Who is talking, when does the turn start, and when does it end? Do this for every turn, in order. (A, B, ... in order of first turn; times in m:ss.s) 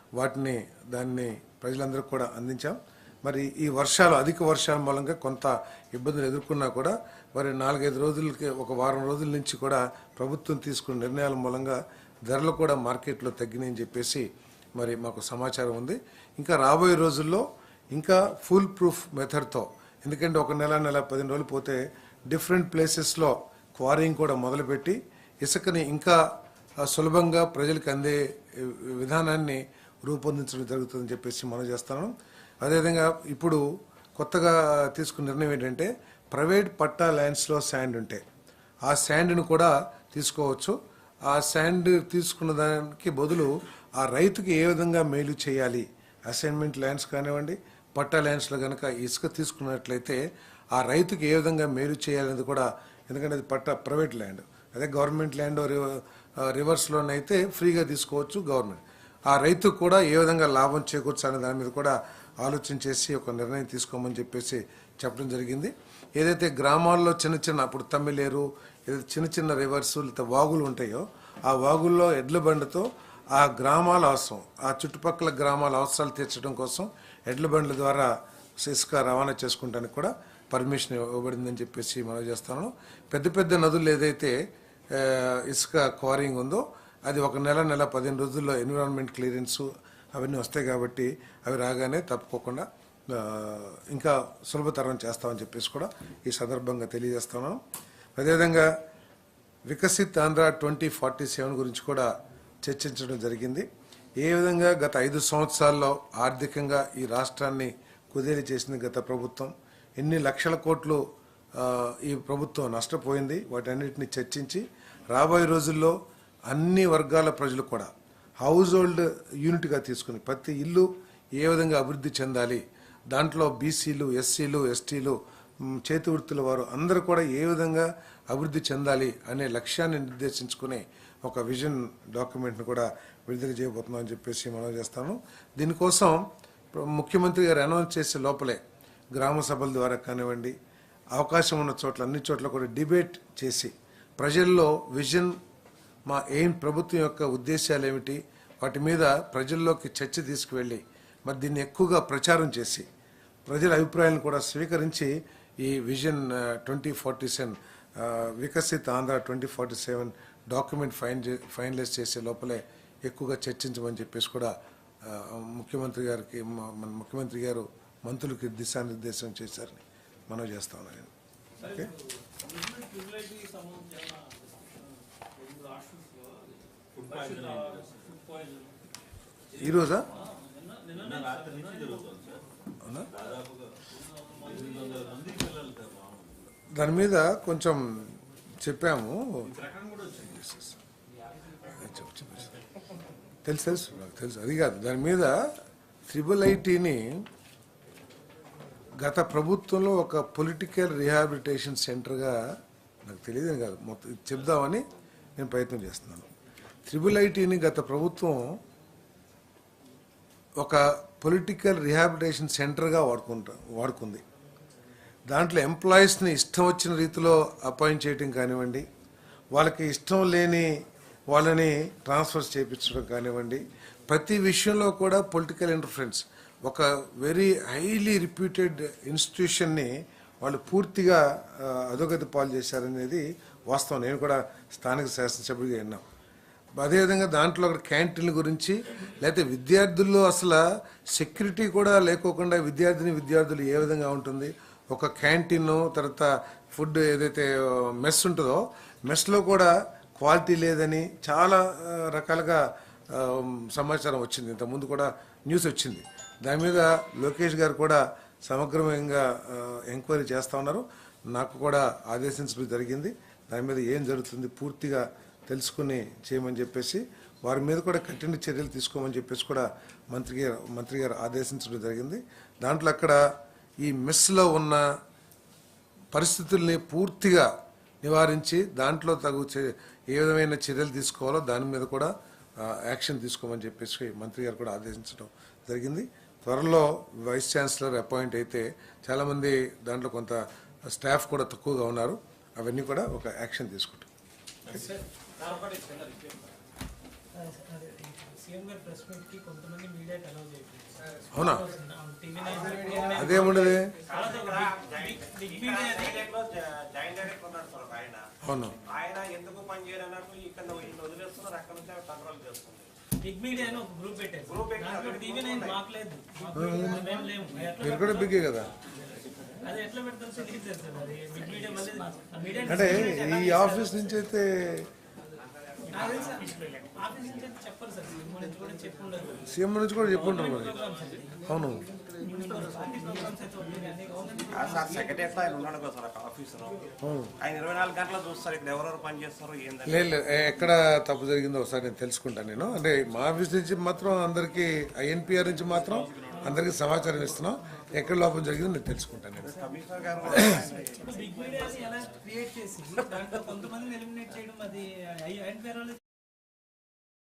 0:00.2-0:26.2 A
0:26.8-0:33.6 A
0:34.2-0:38.2 A
0:38.8-0:50.2 A
0:50.7-1:24.4 A
1:24.9-1:37.6 A
1:38.2-1:38.7 A
1:39.7-1:42.1 A
1:42.6-1:43.7 A
1:44.2-1:51.0 A
1:51.6-1:56.0 A
1:56.5-1:57.9 A
1:58.4-2:16.2 A
2:16.7-2:18.6 A
2:19.1-2:20.6 A
2:21.1-2:25.4 A
2:26.1-2:32.9 A
2:33.4-2:51.9 A
2:51.6-2:58.7 B
2:56.9-2:58.0 C
2:59.6-3:00.2 C
2:59.6-3:00.0 A
3:00.1-3:02.1 B
3:01.0-3:02.4 C
3:03.0-3:03.9 C
3:03.9-3:05.1 B
3:04.4-3:06.5 C
3:06.8-3:08.1 A
3:08.6-3:09.5 A
3:09.4-3:10.7 C
3:11.8-3:12.5 A
3:13.4-3:15.4 A
3:16.1-3:17.0 A
3:19.0-3:22.4 A
3:23.0-3:24.8 A
3:25.4-3:26.3 A
3:26.8-3:28.6 A
3:30.6-3:34.2 A
3:35.3-3:38.8 A
3:39.5-3:40.8 A
3:41.3-3:49.9 A
3:50.4-3:56.0 A
3:56.8-4:33.3 A
4:33.8-4:34.9 A
4:36.1-4:37.5 A
4:38.0-4:54.1 A
4:54.7-4:56.5 D
4:57.3-5:06.3 E
5:01.3-5:01.7 A
5:02.4-5:03.5 D
5:03.1-5:03.9 A
5:04.0-5:08.2 D
5:08.4-5:08.8 A
5:08.8-5:12.9 D
5:13.2-5:18.6 E
5:14.4-5:15.8 D
5:16.5-5:17.0 A
5:17.8-5:18.7 A
5:19.6-5:24.2 E
5:22.6-5:24.9 A
5:25.9-5:29.5 E
5:29.5-5:30.8 A
5:30.1-5:31.4 E
5:30.6-5:31.0 B
5:31.5-5:31.8 A
5:32.2-5:35.2 E
5:34.5-5:40.1 D
5:37.0-5:37.3 A
5:39.8-5:49.5 A
5:49.4-5:51.7 D
5:50.9-5:56.0 E